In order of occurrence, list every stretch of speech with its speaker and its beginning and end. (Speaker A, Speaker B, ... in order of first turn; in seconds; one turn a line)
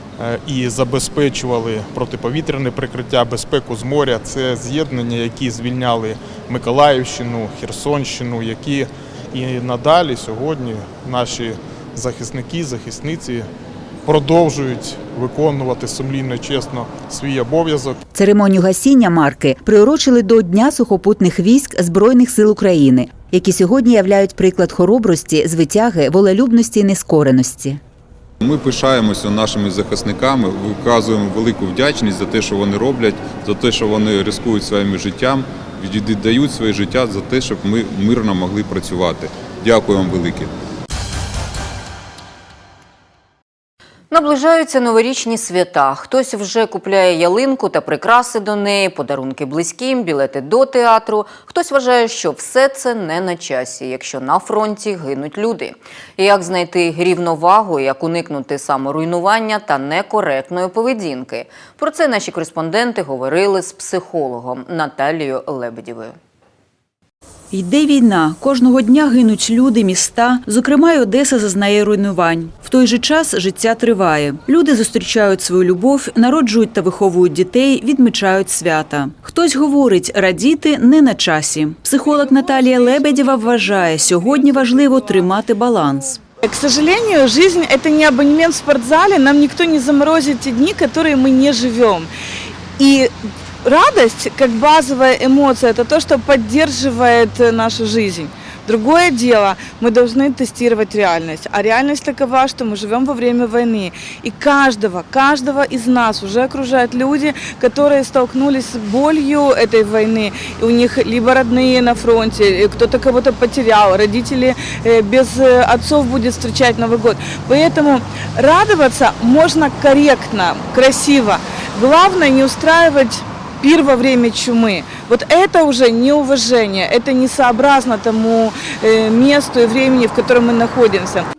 Speaker A: 0.2-13.5
Speaker A: 14.1-18.0
Speaker B: 18.1-27.8
Speaker C: 28.4-40.5
Speaker D: 44.1-66.2
Speaker E: 67.5-86.2
Speaker F: 86.4-92.1
Speaker F: 92.8-93.1
Speaker F: 93.6-131.3